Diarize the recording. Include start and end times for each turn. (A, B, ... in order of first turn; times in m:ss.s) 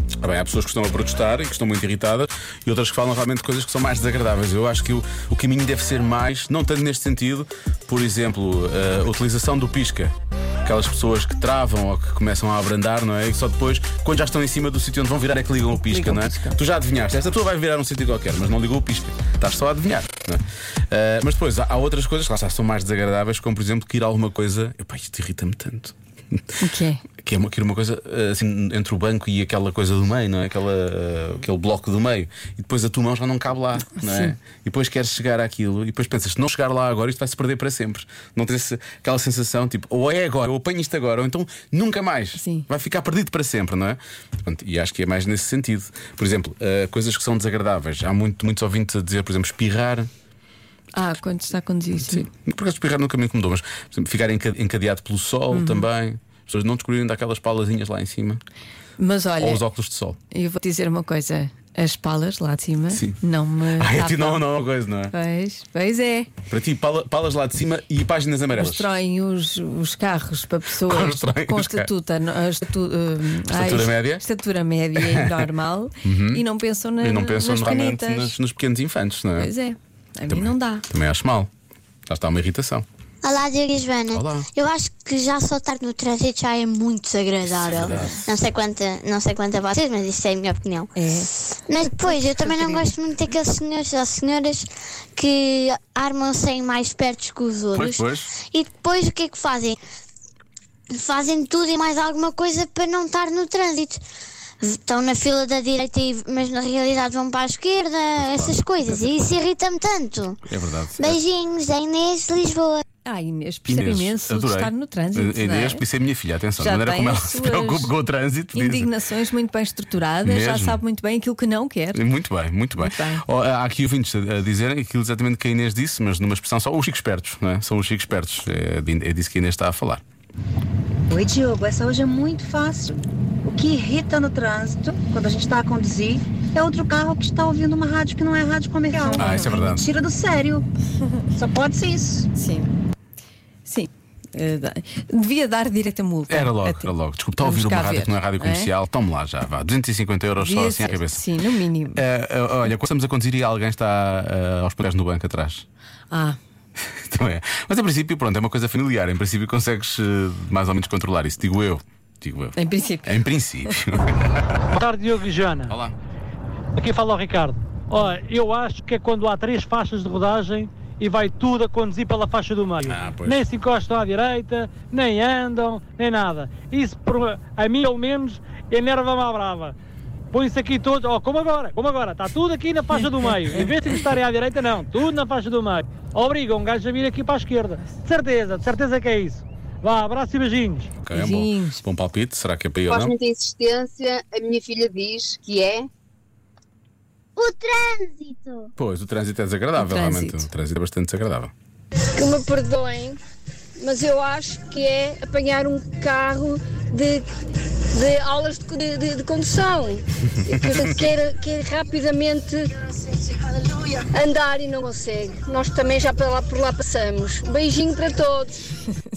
0:00.2-0:10.1 A
0:10.6-0:26.4 A
0:15.8-0:16.6 B
0:26.6-0:27.0 B
0:27.2-0:50.1 A
0:34.0-0:34.3 B
0:42.4-0:42.6 B
0:50.9-0:52.3 B
0:52.0-0:58.4 A
0:55.5-0:55.9 B
0:59.0-0:59.6 B
0:59.4-1:00.2 A
1:00.3-1:04.4 B
1:02.9-1:03.2 A
1:03.8-1:05.1 A
1:05.1-1:06.3 B
1:06.5-1:08.9 A
1:08.6-1:18.3 B
1:10.8-1:11.9 A
1:13.5-1:14.2 A
1:15.0-1:15.4 A
1:16.0-1:16.4 A
1:17.0-1:19.5 A
1:19.4-1:20.8 B
1:20.3-1:21.5 A
1:22.1-1:22.8 A
1:23.2-1:30.9 C
1:24.1-1:24.5 A
1:27.6-1:28.3 A
1:30.9-1:31.3 B
1:31.7-1:39.8 C
1:31.8-1:32.9 B
1:37.7-1:38.3 A
1:40.9-1:44.0 C
1:44.6-1:50.4 C
1:48.2-1:48.6 A
1:50.4-1:51.2 A
1:51.0-1:52.8 C
1:53.0-1:55.8 B
1:53.7-1:58.9 A
1:56.6-1:57.9 B
1:58.5-2:02.0 B
2:00.2-2:00.8 A
2:01.9-2:10.0 A
2:02.8-2:03.2 B
2:11.1-2:20.6 D
2:19.0-2:19.5 B
2:19.2-2:19.8 A
2:21.3-2:22.3 D
2:22.3-2:22.7 B
2:23.6-2:28.7 B
2:26.3-2:31.2 A
2:30.4-2:32.0 B
2:31.9-2:35.6 A
2:36.1-2:36.4 B
2:36.9-2:44.7 A
2:42.6-2:43.2 B
2:44.7-2:45.7 E
2:45.7-2:46.0 A
2:46.8-2:59.7 E
2:52.8-2:53.4 A
3:00.3-3:10.9 E
3:11.0-3:13.1 A
3:11.1-3:11.8 B
3:12.9-3:15.9 F
3:17.4-3:18.7 C
3:18.8-3:21.5 A
3:19.8-3:20.5 B
3:22.1-3:23.2 G
3:23.8-3:27.2 G
3:27.9-3:38.6 G
3:30.5-3:31.1 A